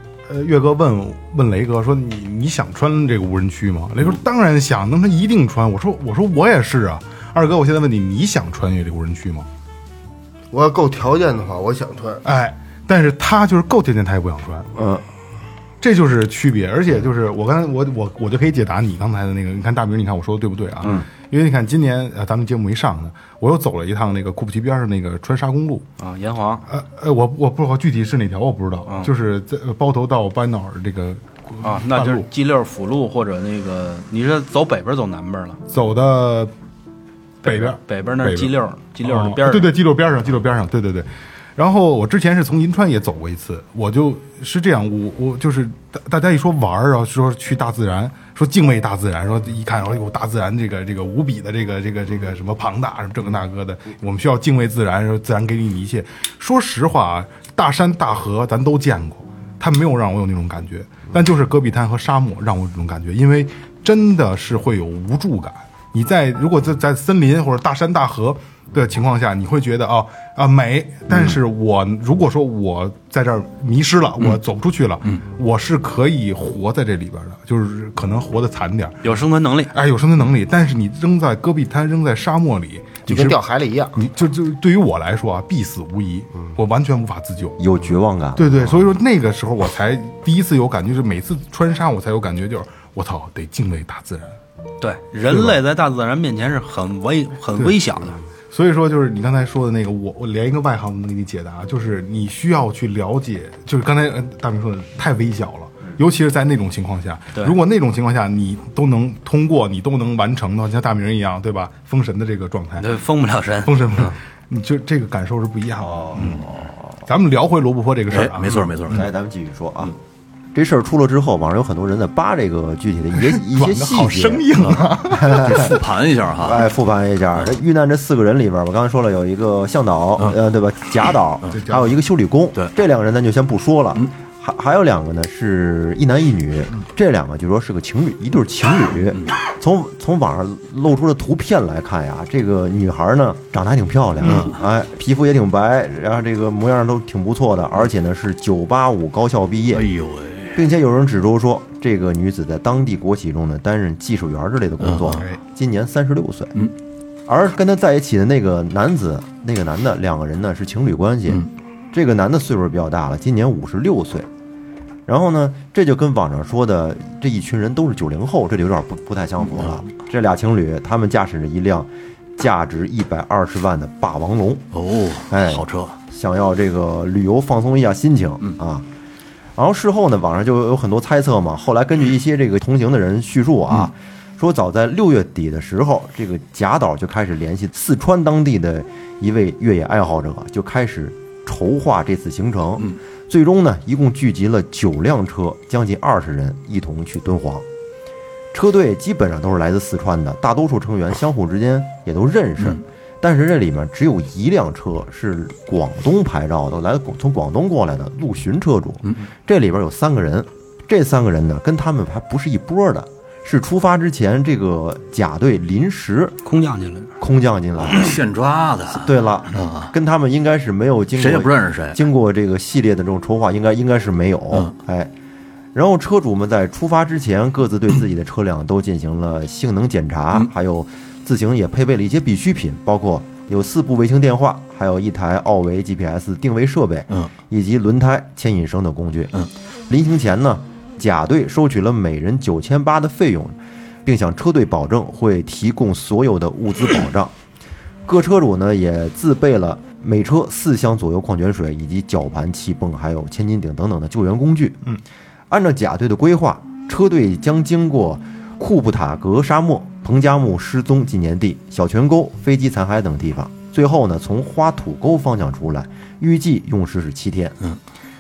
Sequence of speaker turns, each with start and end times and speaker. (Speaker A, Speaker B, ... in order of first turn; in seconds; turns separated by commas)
Speaker A: 0.3-9.5, Speaker B: 10.5-12.2, Speaker A: 12.2-14.7, Speaker C: 14.7-15.0, Speaker A: 15.8-25.9, Speaker D: 26.0-26.7, Speaker A: 26.7-32.3, Speaker D: 31.6-35.6, Speaker A: 35.7-36.5, Speaker A: 37.4-79.1, Speaker D: 37.4-39.7, Speaker D: 79.0-79.7, Speaker A: 79.7-83.4, Speaker B: 83.1-84.0, Speaker A: 84.0-87.6, Speaker C: 87.6-88.8, Speaker A: 88.4-94.4, Speaker D: 94.8-98.2, Speaker A: 95.3-95.6, Speaker A: 98.5-112.9, Speaker D: 112.8-114.2, Speaker A: 113.6-116.5, Speaker C: 115.8-116.8, Speaker A: 117.0-118.8, Speaker E: 118.1-119.1, Speaker C: 118.9-120.0, Speaker C: 120.5-125.8, Speaker A: 123.2-125.7, Speaker E: 125.3-126.7, Speaker C: 126.4-149.9, Speaker A: 131.5-131.9, Speaker E: 149.7-150.6, Speaker C: 150.5-156.6, Speaker E: 154.8-155.2, Speaker A: 155.1-155.4, Speaker C: 157.3-164.3, Speaker C: 165.1-174.7, Speaker E: 174.7-176.0, Speaker C: 175.3-178.8, Speaker C: 179.6-197.7, Speaker C: 198.5-216.4, Speaker D: 216.4-217.1, Speaker C: 217.2-218.2, Speaker E: 217.8-219.9, Speaker C: 218.9-225.1, Speaker E: 221.2-222.0, Speaker C: 225.7-239.3, Speaker C: 239.9-247.3, Speaker C: 248.1-254.9, Speaker C: 255.5-267.6